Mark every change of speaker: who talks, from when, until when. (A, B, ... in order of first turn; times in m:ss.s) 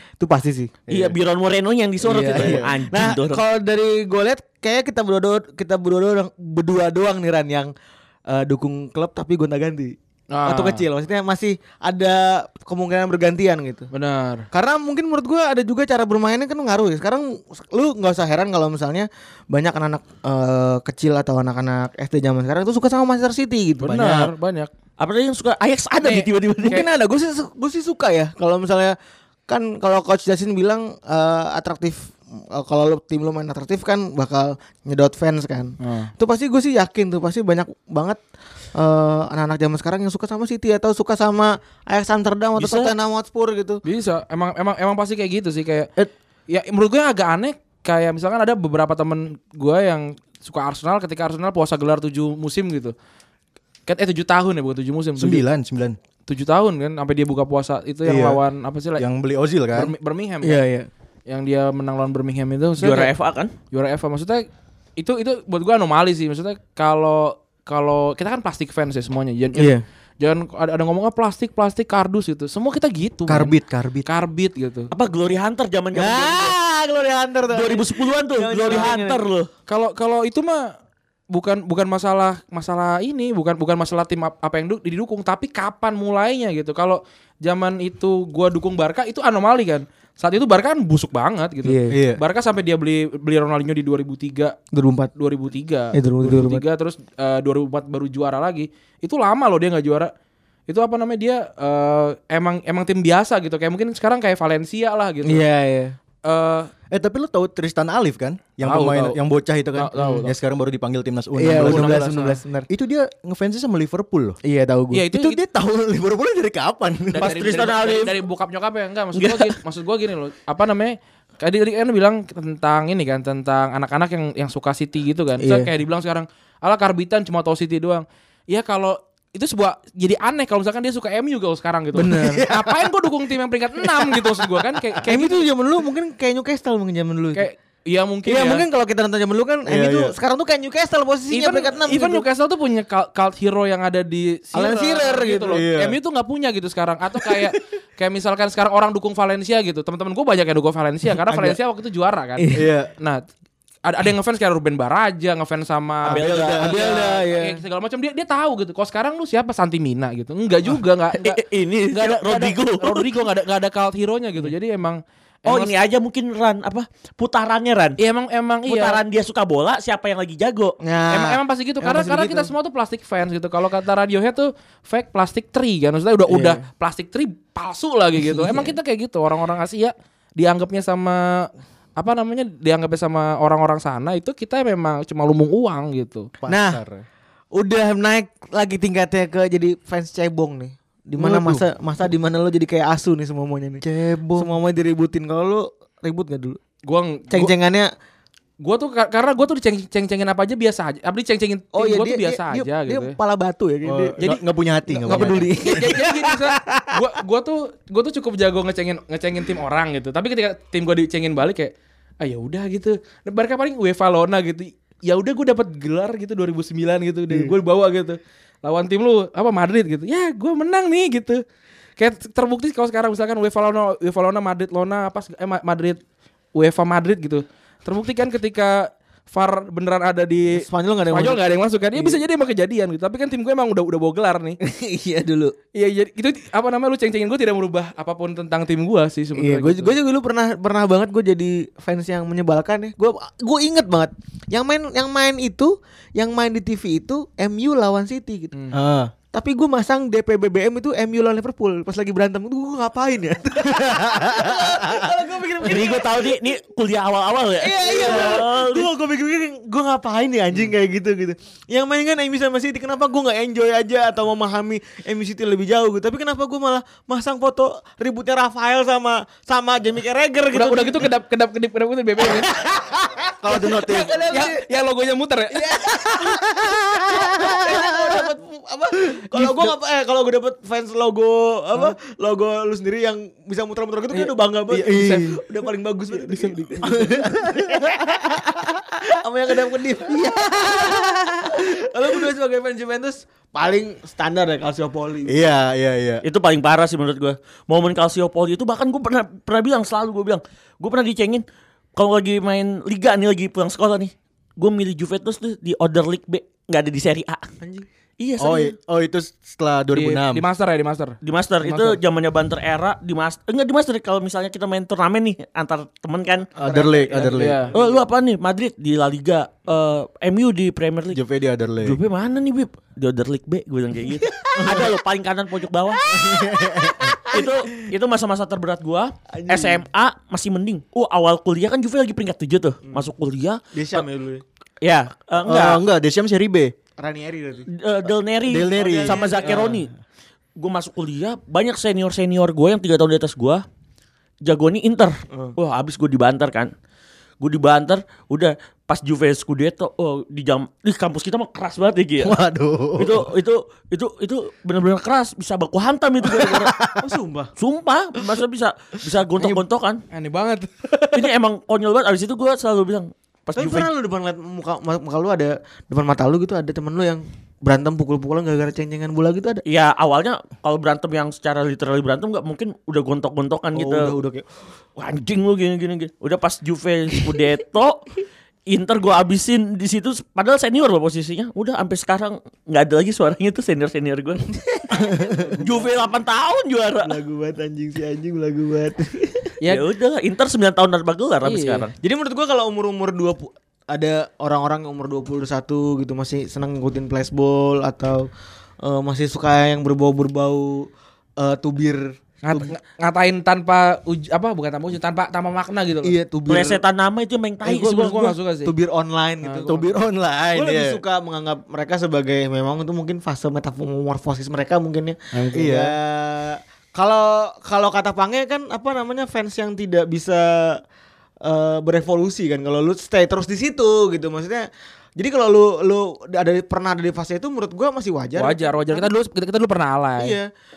0:00.2-0:00.7 A
0:00.9-0:01.2 B
0:00.9-0:03.4 C
0:02.0-0:07.7 A
0:02.2-0:02.8 B
0:08.3-0:13.9 A
0:10.3-0:10.8 D
0:13.9-0:14.4 D
0:14.5-0:24.3 A
0:23.8-0:24.7 D
0:25.0-0:26.8 C
0:26.0-0:26.9 D
0:26.6-0:29.0 A
0:29.5-0:38.2 A
0:35.8-0:36.1 D
0:38.7-0:43.8 A
0:42.6-0:42.9 C
0:43.8-0:45.9 D
0:46.5-0:52.9 D
0:53.9-0:55.4 D
0:55.2-0:56.0 B
0:56.3-0:59.0 D
0:58.0-0:58.4 B
0:59.0-0:59.9 B
0:59.7-1:00.6 D
1:00.4-1:00.9 A
1:01.3-1:03.1 D
1:02.8-1:03.5 C
1:03.7-1:04.4 D
1:05.0-1:14.9 D
1:09.5-1:09.8 A
1:13.3-1:14.1 B
1:14.9-1:16.5 C
1:15.9-1:19.2 A
1:17.5-1:19.5 C
1:19.7-1:20.7 D
1:21.3-1:34.6 D
1:31.6-1:32.0 A
1:31.9-1:32.2 B
1:34.7-1:35.1 A
1:35.2-1:40.1 D
1:35.9-1:36.6 A
1:40.7-1:45.4 D
1:45.2-1:46.0 A
1:46.2-1:46.7 D
1:46.9-1:52.2 B
1:48.6-1:49.2 D
1:49.7-1:50.3 D
1:50.0-1:50.2 A
1:51.4-1:52.7 A
1:51.5-1:52.4 D
1:52.7-1:54.4 B
1:54.4-1:55.0 A
1:54.9-1:55.4 D
1:55.1-1:57.4 B
1:57.1-2:15.4 D
1:57.2-1:58.2 C
1:59.1-1:59.5 C
2:05.4-2:05.7 A
2:11.9-2:12.6 A
2:15.0-2:17.4 A
2:17.4-2:18.6 D
2:18.2-2:22.2 A
2:19.7-2:20.1 B
2:21.3-2:33.2 D
2:24.5-2:25.6 A
2:25.5-2:26.0 B
2:31.2-2:31.6 A
2:32.4-2:32.6 A
2:32.5-2:32.9 B
2:33.8-2:45.8 D
2:36.0-2:36.8 B
2:36.1-2:36.7 C
2:36.6-2:37.6 A
2:41.1-2:43.2 C
2:45.4-2:48.0 C
2:48.0-2:49.0 D
2:48.6-2:50.8 C
2:50.8-2:52.5 A
2:51.1-3:06.3 D
2:56.3-2:56.6 A
2:58.2-2:58.7 A
3:06.4-3:07.0 B
3:06.5-3:06.8 A
3:07.5-3:16.6 A
3:11.2-3:11.6 B
3:13.8-3:14.2 B
3:16.8-3:17.5 D
3:17.3-3:17.9 A
3:18.6-3:23.2 D
3:21.7-3:24.3 A
3:23.8-3:25.9 B
3:24.9-3:27.0 A
3:25.1-3:41.4 D
3:42.0-3:46.0 D
3:46.5-3:54.6 D
3:50.5-3:51.4 A
3:51.9-3:52.2 A
3:54.6-3:55.5 A
3:55.7-4:00.0 D
3:59.4-4:08.5 A
4:08.7-4:09.1 B
4:09.3-4:16.3 A
4:13.7-4:15.0 B
4:15.6-4:18.9 C
4:17.6-4:31.1 A
4:30.5-4:33.0 D
4:32.2-4:34.6 A
4:33.4-4:34.3 B
4:34.3-4:35.6 D
4:35.5-4:55.4 A
4:39.3-4:39.7 B
4:44.1-4:45.3 D
4:44.8-4:45.4 B
4:46.9-4:48.3 B
4:55.3-4:56.2 B
4:56.2-5:01.4 C
5:02.0-5:07.4 C
5:07.6-5:07.9 A
5:08.2-5:08.7 C
5:08.4-5:10.4 B
5:09.9-5:12.0 D
5:11.2-5:16.5 C
5:16.6-5:18.0 A
5:16.6-5:17.7 B
5:17.3-5:17.7 D
5:17.7-5:21.2 C
5:21.1-5:22.0 B
5:21.8-5:26.0 C
5:24.4-5:24.9 A
5:26.0-5:27.5 A
5:26.1-5:27.2 B
5:27.2-5:34.0 C
5:29.3-5:29.8 A
5:33.7-5:34.4 A
5:34.8-5:35.8 C
5:35.4-5:36.7 B
5:37.0-5:37.7 A
5:37.7-5:39.9 C
5:38.4-5:39.4 B
5:38.7-5:39.8 A
5:40.6-5:43.6 C
5:44.4-5:46.7 C
5:45.3-5:45.6 A
5:47.4-5:52.3 C
5:52.2-5:53.3 B
5:53.0-5:56.8 C
5:56.3-5:57.0 B
5:57.0-5:57.5 A
5:57.6-6:00.0 C
6:00.1-6:01.3 D
6:01.1-6:03.9 C
6:03.6-6:09.6 A
6:09.6-6:14.1 C
6:13.7-6:14.4 A
6:15.0-6:18.1 C
6:18.7-6:24.4 C
6:24.8-6:25.8 A
6:25.6-6:27.2 C
6:27.0-6:29.6 A
6:29.6-6:29.9 D
6:29.7-6:31.9 C
6:31.4-6:31.9 D
6:32.0-6:38.3 A
6:38.8-6:40.9 A
6:41.4-6:42.7 A
6:42.4-6:46.2 D
6:46.0-6:46.8 A
6:46.5-6:48.3 C
6:47.6-6:49.8 A
6:47.8-6:48.7 D
6:49.4-6:49.8 D
6:49.6-6:51.0 B
6:50.5-7:00.8 A
6:55.5-6:55.9 B
7:01.4-7:09.1 A
7:08.4-7:10.4 D
7:10.2-7:10.5 A